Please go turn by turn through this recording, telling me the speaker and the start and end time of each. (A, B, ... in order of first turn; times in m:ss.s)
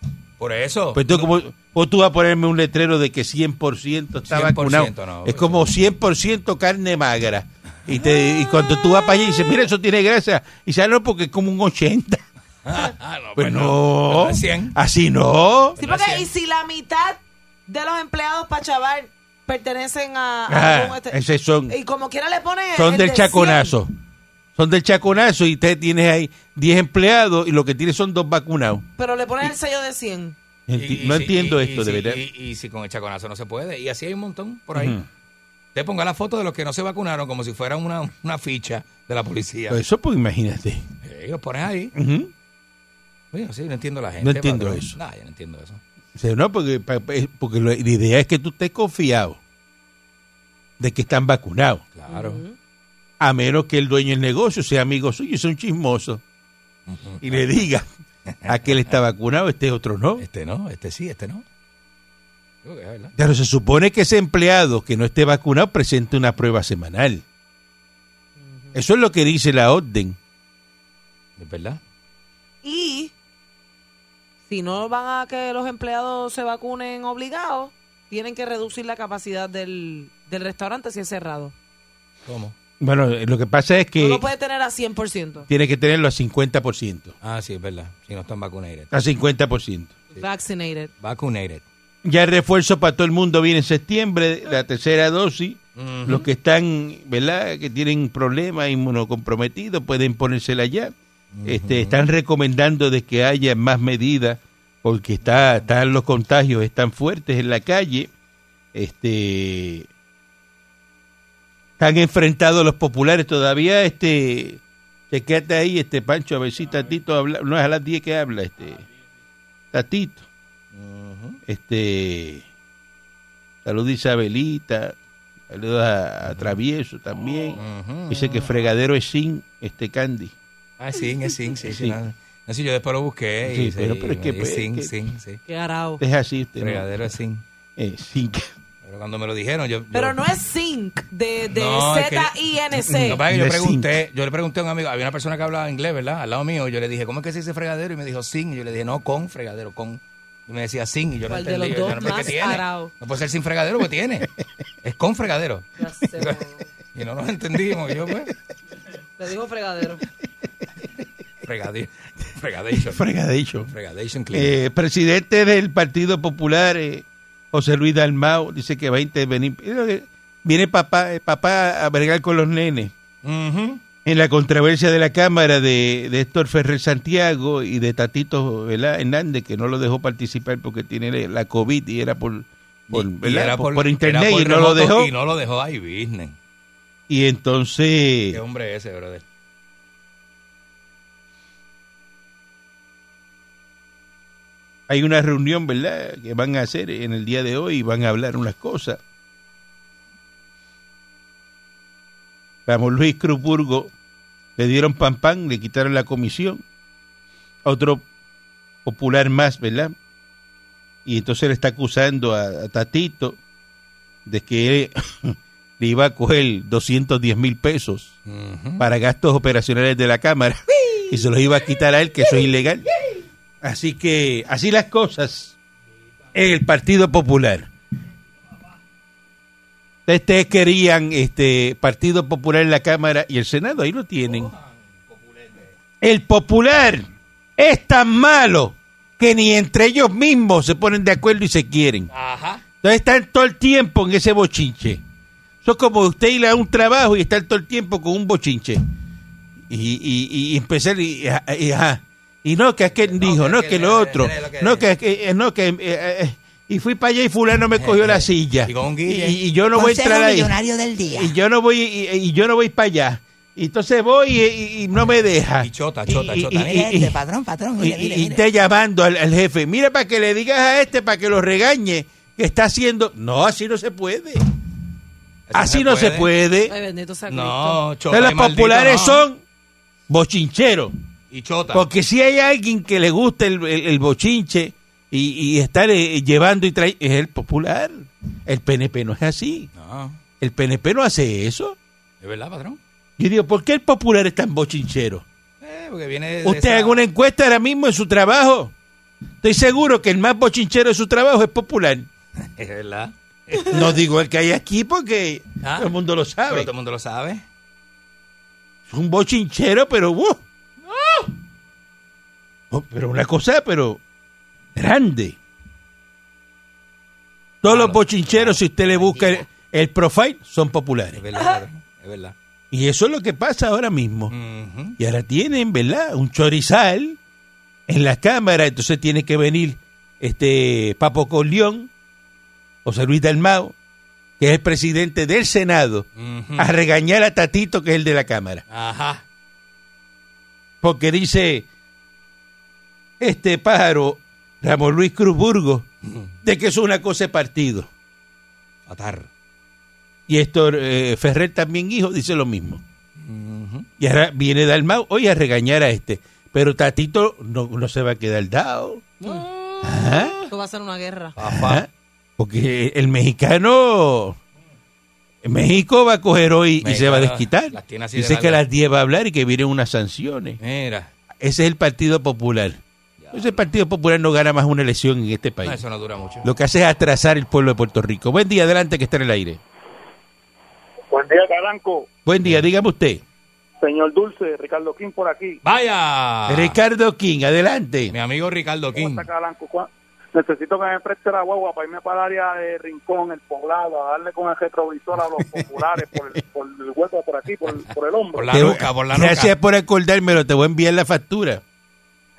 0:00.4-0:01.3 A
0:00.9-0:12.2 B
0:04.3-0:05.6 A
0:12.6-0:14.8 A
0:13.4-0:15.8 B
0:15.8-0:16.3 A
0:15.8-0:23.8 C
0:20.5-0:21.7 B
0:22.8-0:23.9 B
0:24.6-0:28.9 B
0:29.0-0:30.4 C
0:30.7-0:32.2 B
0:30.8-0:35.0 A
0:34.7-0:35.0 B
0:35.8-0:39.8 A
0:39.7-0:40.8 B
0:41.0-0:41.9 A
0:42.0-0:42.3 B
0:43.3-0:45.8 A
0:44.2-0:45.0 B
0:46.2-0:49.4 B
0:50.8-0:51.8 B
0:52.0-0:52.4 A
0:52.1-0:52.6 C
0:53.2-0:56.2 B
0:56.9-0:57.5 A
0:57.2-0:57.9 B
0:58.3-0:58.8 A
0:58.5-1:00.3 B
1:00.2-1:01.4 A
1:02.6-1:03.1 A
1:03.2-1:07.2 B
1:08.4-1:08.8 C
1:08.7-1:10.2 B
1:11.4-1:11.8 A
1:12.6-1:13.1 C
1:14.5-1:21.5 C
1:22.2-1:22.6 A
1:22.8-1:24.3 B
1:24.0-1:25.5 C
1:25.5-1:27.2 B
1:27.2-1:28.9 A
1:28.9-1:30.0 B
1:30.1-1:30.9 C
1:31.0-1:31.6 A
1:32.0-1:40.9 B
1:35.8-1:36.3 A
1:41.3-1:42.0 A
1:41.4-1:48.1 B
1:45.3-1:45.6 A
1:48.7-1:49.9 B
1:51.8-1:58.8 B
1:59.7-2:00.2 B
2:00.7-2:01.4 A
2:01.5-2:02.4 B
2:03.6-2:05.0 B
2:05.5-2:10.3 B
2:07.6-2:08.5 A
2:10.8-2:15.4 A
2:11.6-2:12.0 B
2:13.4-2:14.9 B
2:15.5-2:16.0 C
2:16.0-2:16.9 B
2:16.6-2:17.4 A
2:17.8-2:18.5 B
2:18.8-2:20.2 A
2:19.9-2:23.2 C
2:21.5-2:22.4 A
2:22.9-2:23.9 B
2:23.0-2:34.3 A
2:31.3-2:32.9 C
2:34.8-2:36.4 A
2:35.8-2:36.7 C
2:36.9-2:38.3 A
2:39.2-2:40.0 C
2:41.4-2:43.0 A
2:42.8-2:43.7 B
2:43.6-2:44.5 A
2:44.3-2:52.9 B
2:53.2-2:53.8 A
2:54.0-3:05.1 B
3:02.9-3:06.4 A
3:07.1-3:08.4 B
3:08.3-3:09.2 A
3:14.9-3:19.0 B
3:22.7-3:23.9 B
3:24.6-3:26.6 B
3:27.6-3:28.1 B
3:28.8-3:29.9 B
3:31.0-3:33.4 B
3:34.3-3:38.2 B
3:38.3-3:38.8 A
3:38.8-3:42.9 B
3:43.6-3:45.6 B
3:46.3-3:47.7 B
3:50.1-3:54.5 B
3:54.2-3:55.8 A
3:56.0-3:57.1 B
3:57.6-4:02.1 B
4:02.1-4:02.6 A
4:02.8-4:05.0 B
4:05.6-4:08.8 B
4:09.7-4:27.2 B
4:13.0-4:14.9 A
4:17.8-4:19.4 A
4:19.7-4:21.3 D
4:25.6-4:26.9 A
4:26.8-4:28.4 D
4:27.8-4:34.4 B
4:35.5-4:36.3 A
4:35.5-4:36.7 B
4:36.7-4:37.8 C
4:37.3-4:39.2 A
4:38.1-4:39.4 B
4:40.1-4:40.9 B
4:41.3-4:41.8 A
4:41.7-4:49.7 B
4:49.7-4:50.2 A
4:50.4-4:51.8 B
4:52.2-4:52.8 A
4:53.2-4:55.2 B
4:55.6-4:57.0 A
4:56.4-4:58.7 B
4:59.4-5:02.1 B
5:02.4-5:04.0 A
5:03.6-5:06.7 B
5:05.6-5:05.9 A
5:06.5-5:07.4 A
5:08.9-5:10.4 B
5:10.9-5:11.3 A
5:12.7-5:14.0 B
5:14.8-5:15.4 B
5:17.6-5:21.2 B
5:17.6-5:19.4 A
5:21.2-5:22.4 A
5:22.7-5:24.3 B
5:24.3-5:25.0 A
5:25.0-5:27.2 B
5:27.9-5:31.9 B
5:32.8-5:33.8 B
5:34.4-5:38.6 B
5:36.2-5:36.7 A
5:38.7-5:39.2 A
5:40.8-5:41.7 B
5:43.2-5:45.9 B
5:46.0-5:46.3 A
5:46.4-5:47.9 B
5:48.9-5:49.3 A
5:50.3-5:52.8 B
5:53.2-5:53.9 A
5:54.0-5:59.1 B
5:59.2-6:01.3 C
5:59.8-6:00.4 B
6:01.4-6:01.9 A
6:01.4-6:04.4 B
6:05.4-6:10.6 B
6:06.8-6:08.6 A
6:10.6-6:11.1 A
6:11.4-6:12.8 B
6:13.2-6:13.6 A
6:13.3-6:15.8 B
6:15.6-6:16.5 A
6:16.4-6:19.6 B
6:21.1-6:22.1 E
6:22.3-6:23.2 B
6:23.8-6:25.6 E
6:25.6-6:26.8 A
6:26.5-6:28.2 B
6:28.1-6:29.3 A
6:29.0-6:38.7 E
6:38.3-6:39.5 A
6:38.5-6:41.6 B